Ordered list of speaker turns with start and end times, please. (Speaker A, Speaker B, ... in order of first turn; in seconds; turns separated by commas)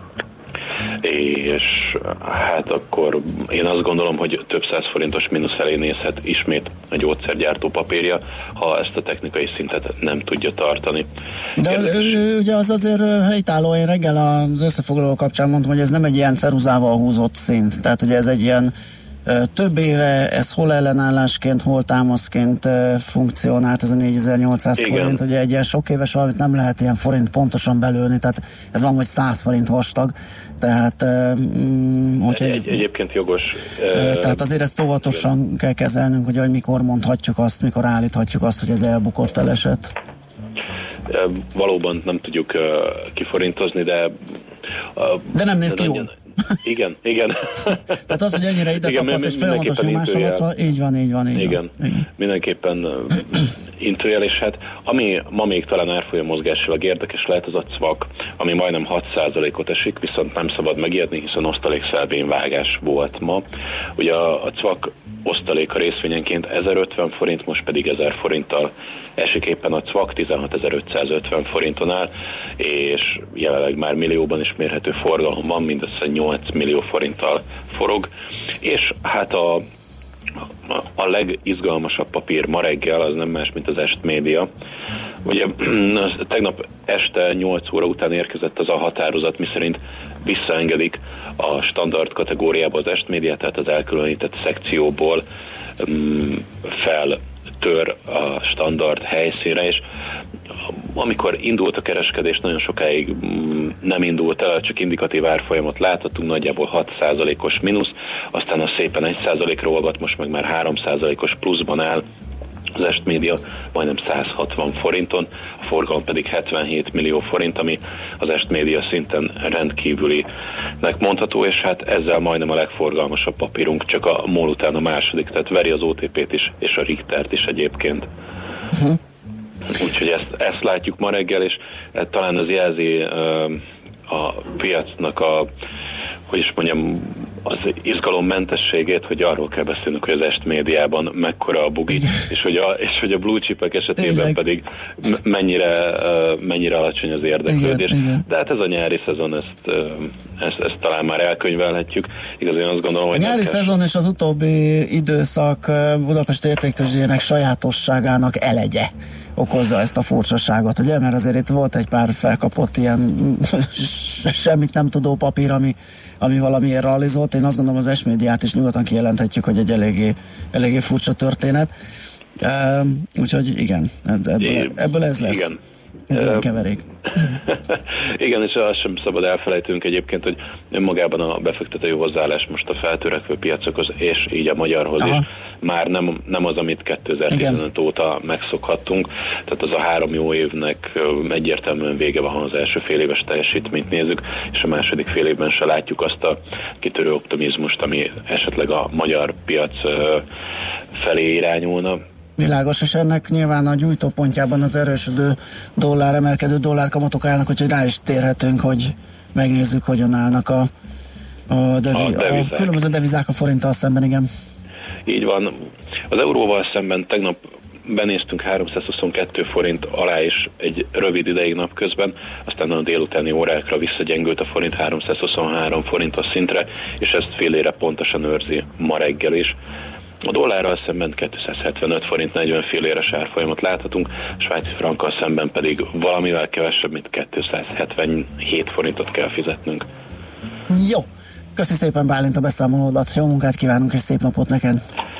Speaker A: 1.0-11.1, Speaker B: 11.6-18.7, Speaker A: 11.6-12.1, Speaker B: 19.2-32.8, Speaker A: 24.8-25.2, Speaker A: 32.3-34.5, Speaker B: 33.9-39.9, Speaker A: 41.1-44.2, Speaker A: 45.0-46.1, Speaker B: 45.3-46.1, Speaker A: 46.6-50.5, Speaker B: 48.1-52.0, Speaker A: 51.3-78.1, Speaker A: 78.6-79.7, Speaker A: 80.7-84.5, Speaker A: 85.2-95.2, Speaker A: 95.8-99.8, Speaker A: 100.9-112.0, Speaker A: 112.8-120.3, Speaker A: 120.8-128.1, Speaker A: 129.7-135.5, Speaker A: 136.3-153.7, Speaker B: 144.0-144.4, Speaker B: 147.5-148.2, Speaker B: 153.1-171.7, Speaker B: 172.4-175.5, Speaker A: 174.4-175.6, Speaker B: 176.1-176.8, Speaker A: 176.1-176.4, Speaker A: 177.2-200.2, Speaker B: 185.0-185.2, Speaker B: 187.3-187.6, Speaker A: 200.9-202.0, Speaker B: 202.4-210.7, Speaker B: 211.5-214.3, Speaker A: 211.9-212.8, Speaker A: 215.1-215.6, Speaker A: 216.1-229.6, Speaker A: 230.2-239.8, Speaker B: 240.7-244.8